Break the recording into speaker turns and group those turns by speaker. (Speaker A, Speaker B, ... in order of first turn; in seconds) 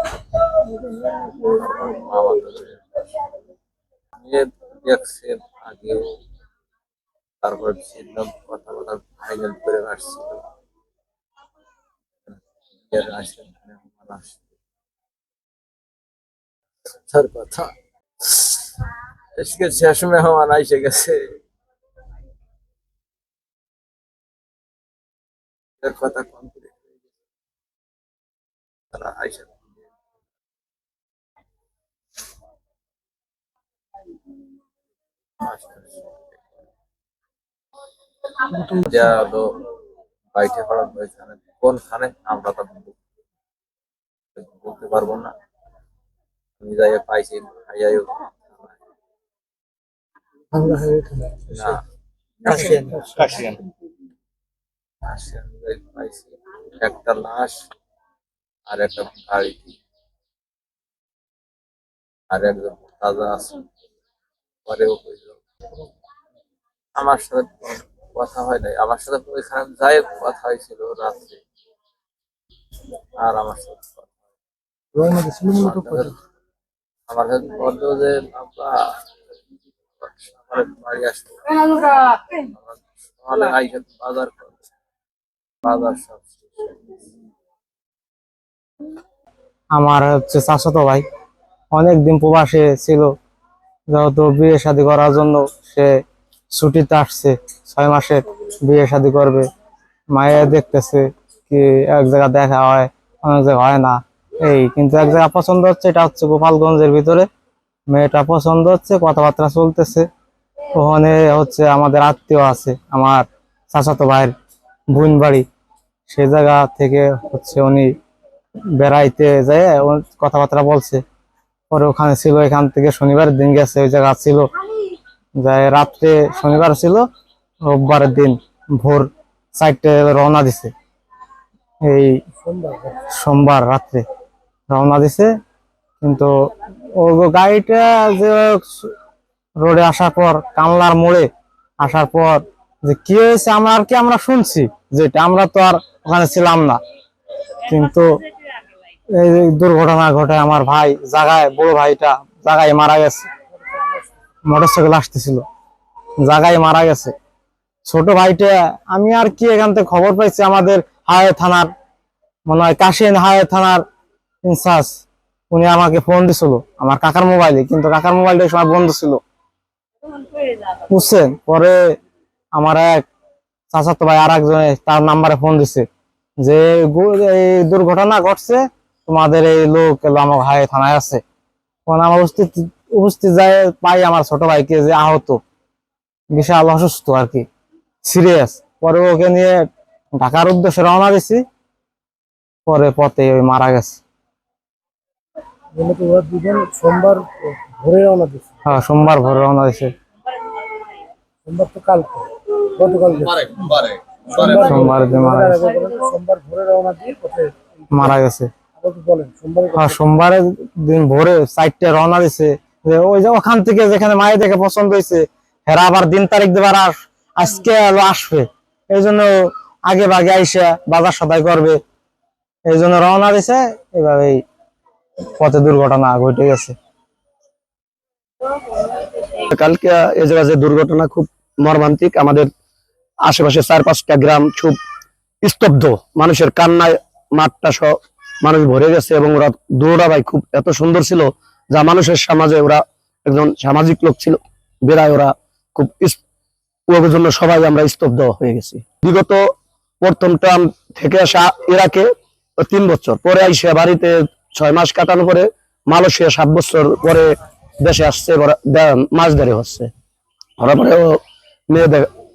Speaker A: 0.7-2.8, 4.2-6.0, 7.4-10.4, 12.3-14.4, 17.1-18.7, 19.4-21.2, 25.8-26.7, 28.9-29.6, 35.4-36.3, 38.5-39.4, 40.4-43.0, 44.4-45.3, 46.6-48.7, 51.5-51.8, 52.5-53.5, 55.1-57.6, 58.7-59.8, 62.3-63.6, 64.7-65.4, 67.0-71.4, 73.2-74.1, 75.0-76.2, 77.1-78.7, 80.0-84.6, 85.6-87.0
Speaker B: 89.8-91.0, 91.7-93.1, 93.9-95.9, 96.5-99.5, 100.2-107.3, 107.9-110.0, 110.8-114.3, 114.9-115.5, 116.1-117.9, 118.8-121.0, 121.7-124.5, 125.4-127.0, 127.7-130.7, 131.8-132.2, 133.2-134.0, 134.7-135.3, 136.0-136.3, 137.0-138.9, 139.6-141.3, 141.8-146.8, 147.6-148.2, 149.2-153.3, 154.5-155.4, 156.2-157.1, 157.9-161.7, 162.5-163.8, 164.4-165.0, 165.5-169.2, 170.9-172.0, 172.6-173.0, 173.7-175.9, 176.4-181.2, 181.9-185.4, 186.3-187.4, 188.0-189.6, 190.2-191.4, 192.7-194.0, 198.7-199.9, 204.6-205.6, 207.9-208.5, 209.8-221.8, 222.7-224.4, 225.3-226.8
Speaker C: 132.5-132.9, 195.8-198.5, 201.5-203.7, 204.3-208.1, 208.8-210.0
Speaker D: 229.5-232.5, 233.2-234.8, 235.4-246.2, 246.9-259.9, 260.6-262.1